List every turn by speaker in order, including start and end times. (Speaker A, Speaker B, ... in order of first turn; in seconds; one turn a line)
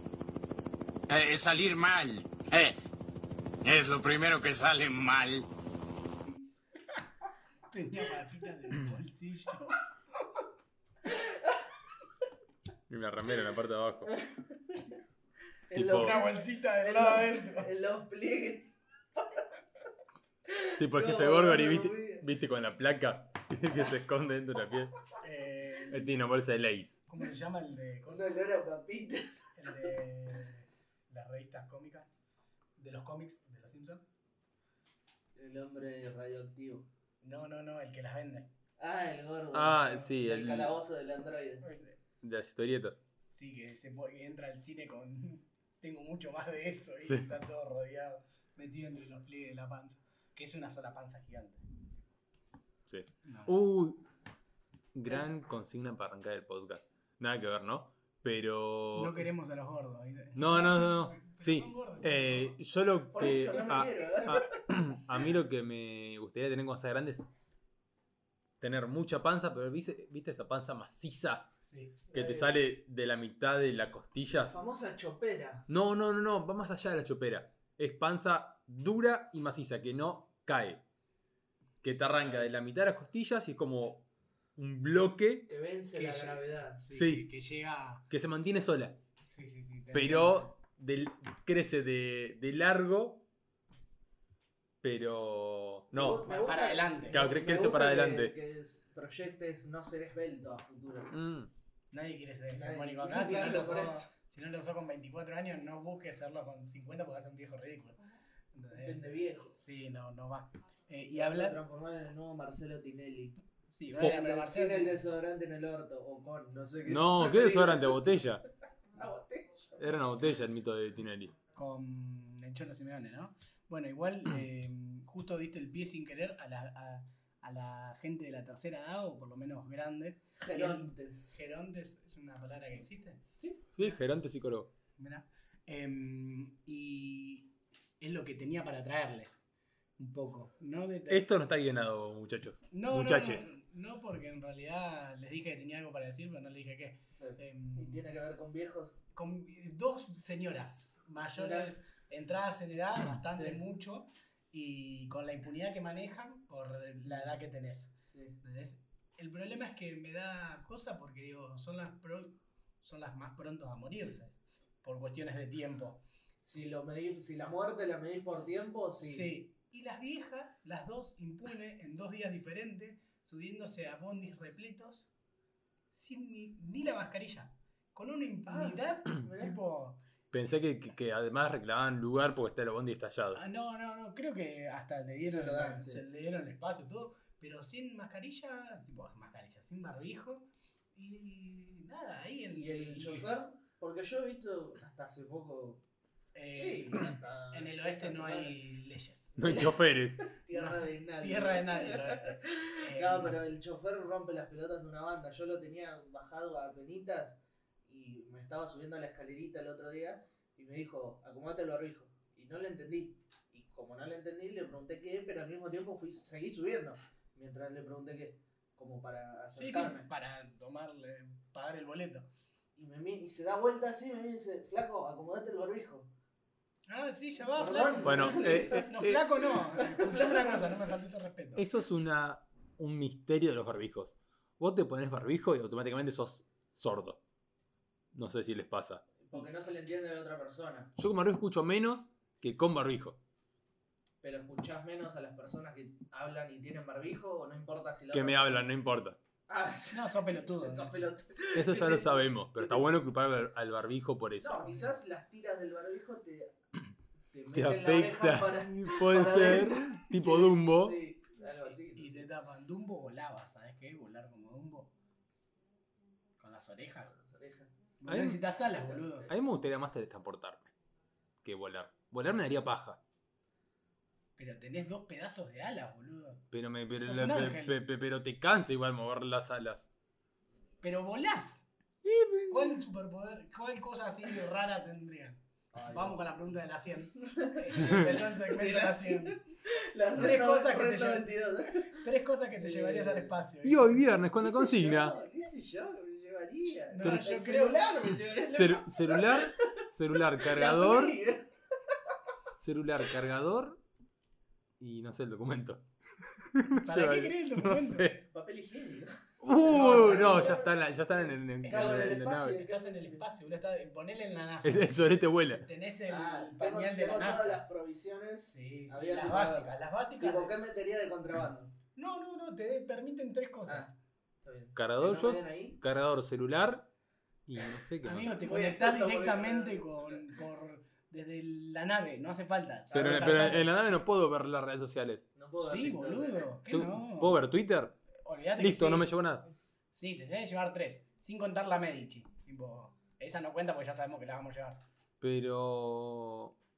Speaker A: 1.1-2.8
Speaker A: 3.6-5.5
Speaker B: 6.1-6.4
Speaker C: 7.7-9.9
Speaker B: 11.1-11.7
Speaker D: 12.9-14.1
Speaker B: 14.1-15.0
Speaker B: 15.7-19.6
Speaker D: 15.7-16.2
Speaker C: 15.9-17.7
Speaker B: 20.5-22.3
Speaker D: 20.8-25.0
Speaker C: 25.2-26.1
Speaker D: 25.9-27.0
Speaker C: 27.1-28.4
Speaker B: 28.1-29.5
Speaker C: 29.6-32.1
Speaker C: 32.8-34.0
Speaker B: 35.4-36.9
Speaker C: 37.2-38.5
Speaker B: 38.8-41.6
Speaker D: 39.5-40.8
Speaker C: 41.6-42.0
Speaker D: 42.2-43.0
Speaker C: 43.4-51.6
Speaker D: 47.0-47.3
Speaker D: 52.9-54.1
Speaker C: 53.3-53.6
Speaker D: 54.9-59.3
Speaker C: 58.9-62.6
Speaker D: 60.4-67.3
Speaker B: 63.1-64.6
Speaker D: 68.6-71.5
Speaker C: 71.6-72.0
Speaker B: 72.1-72.6
Speaker D: 72.1-74.6
Speaker B: 74.3-75.7
Speaker D: 75.7-80.8
Speaker D: 81.8-84.0
Speaker B: 82.0-82.5
Speaker D: 84.6-85.5
Speaker B: 85.5-86.8
Speaker C: 86.0-88.0
Speaker D: 86.9-87.2
Speaker D: 88.1-89.0
Speaker C: 89.3-90.5
Speaker D: 89.9-93.2
Speaker D: 94.8-96.3
Speaker B: 95.9-101.2
Speaker C: 96.2-97.2
Speaker D: 97.1-98.3
Speaker D: 101.1-101.5
Speaker C: 101.9-108.0
Speaker B: 102.5-104.1
Speaker C: 108.5-111.6
Speaker B: 108.7-109.6
Speaker B: 111.1-118.2
Speaker C: 113.7-115.0
Speaker D: 116.9-118.4
Speaker B: 118.9-120.0
Speaker D: 119.8-121.3
Speaker C: 121.5-133.3
Speaker B: 130.4-131.4
Speaker D: 133.7-134.7
Speaker C: 135.0-139.4
Speaker C: 140.0-141.2
Speaker D: 141.1-143.5
Speaker C: 142.7-148.0
Speaker B: 147.2-149.0
Speaker C: 149.2-164.3
Speaker B: 151.4-151.7
Speaker B: 153.2-153.6
Speaker B: 158.1-158.4
Speaker C: 164.8-166.0
Speaker B: 166.4-169.3
Speaker C: 169.0-175.1
Speaker C: 175.9-180.0
Speaker B: 178.5-179.6
Speaker D: 180.3-183.4
Speaker C: 183.3-193.3
Speaker B: 185.2-186.0
Speaker B: 192.6-195.8
Speaker C: 196.3-199.7
Speaker B: 196.5-198.6
Speaker D: 199.4-200.3
Speaker B: 199.4-220.1
Speaker C: 200.5-203.4
Speaker C: 219.5-222.3
Speaker B: 222.8-226.1
Speaker C: 226.9-231.6
Speaker B: 227.5-228.9
Speaker D: 228.1-229.2
Speaker B: 229.8-230.7
Speaker D: 231.6-237.2
Speaker D: 238.1-239.0
Speaker B: 239.2-240.9
Speaker D: 241.0-243.2
Speaker B: 244.2-248.6
Speaker D: 248.1-249.2
Speaker B: 249.5-252.8
Speaker C: 249.9-251.1
Speaker D: 251.5-254.7
Speaker B: 254.4-256.5
Speaker B: 257.3-262.2
Speaker D: 257.5-261.0
Speaker C: 262.0-264.9
Speaker C: 266.4-267.1
Speaker B: 267.1-267.7
Speaker C: 268.0-269.3
Speaker D: 268.1-268.4
Speaker B: 268.6-269.3
Speaker D: 269.3-270.7
Speaker D: 271.4-273.0
Speaker C: 274.4-276.4
Speaker D: 276.5-279.9
Speaker C: 277.0-277.8
Speaker C: 280.8-281.7
Speaker D: 282.0-282.8
Speaker C: 282.5-285.4
Speaker B: 285.7-286.2
Speaker C: 285.9-289.4
Speaker B: 287.1-293.4
Speaker C: 290.1-294.0
Speaker D: 293.6-295.2
Speaker B: 294.4-299.8
Speaker C: 296.9-297.9
Speaker D: 298.5-301.2
Speaker B: 300.4-302.2
Speaker D: 302.6-303.8
Speaker D: 304.8-305.8
Speaker D: 306.5-308.2
Speaker C: 306.7-308.1
Speaker B: 308.3-313.2
Speaker D: 309.4-312.6
Speaker C: 311.6-315.0
Speaker D: 314.6-315.6
Speaker C: 315.6-317.6
Speaker B: 316.1-319.7
Speaker C: 318.5-320.5
Speaker B: 320.2-321.7
Speaker C: 322.0-323.9
Speaker B: 323.6-323.9
Speaker B: 324.4-325.8
Speaker D: 324.8-326.9
Speaker D: 327.5-328.3
Speaker C: 328.0-333.7
Speaker B: 328.4-330.3
Speaker B: 332.9-333.6
Speaker D: 332.9-335.3
Speaker B: 335.4-336.4
Speaker C: 335.6-337.4
Speaker D: 336.7-337.9
Speaker C: 338.2-339.1
Speaker D: 338.6-339.5
Speaker C: 339.9-344.8
Speaker D: 345.2-346.6